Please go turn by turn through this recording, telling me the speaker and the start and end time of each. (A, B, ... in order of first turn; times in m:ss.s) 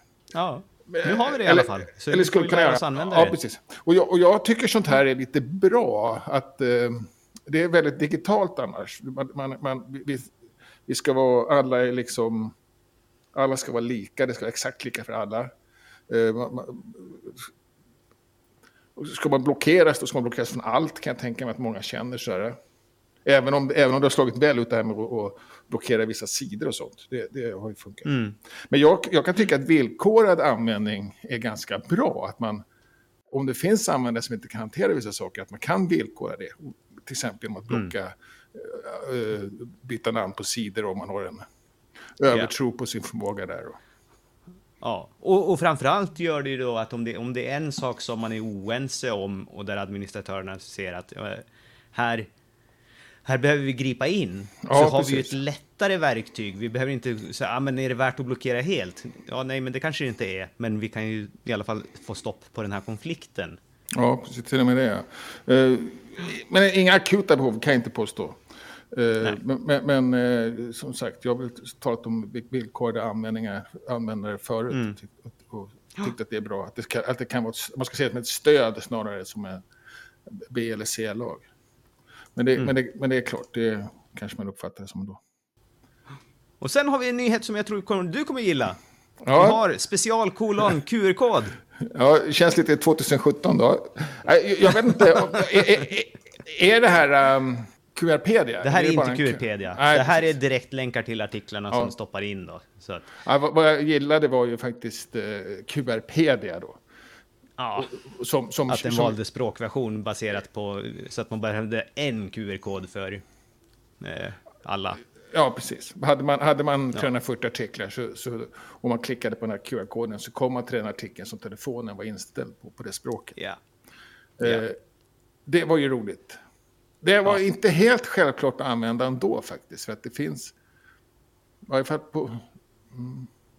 0:00.3-0:03.4 A
0:00.9-0:10.3 B
0:10.9-0:12.6 B
0:13.3-0:15.5 B
0:16.1-0:17.5 B
0:19.0-0:22.6 B
0:23.2-0:28.1 B
0:28.0-0:28.4 A
0:28.7-0:32.6 B
0:33.3-0:41.4 B
0:42.2-0:43.8 B
0:44.8-0:52.3 A
0:53.2-1:03.6 A
0:54.6-0:55.4 B
1:03.9-1:08.4 B
1:08.9-1:19.6 B
1:20.3-1:21.4 B
1:22.4-1:25.2 B
1:26.6-1:28.8 A
1:29.2-1:29.6 B
1:29.3-1:31.6 A
1:31.8-1:40.4 B
1:38.6-1:43.1 A
1:43.2-1:46.8 B
1:47.6-1:47.9 A
1:47.8-1:49.2 B
1:48.7-1:53.2 A
1:54.0-1:55.0 A
1:55.3-2:03.4 B
2:04.4-2:04.8 B
2:05.5-2:06.4 B
2:07.0-2:10.6 B
2:11.7-2:13.3 B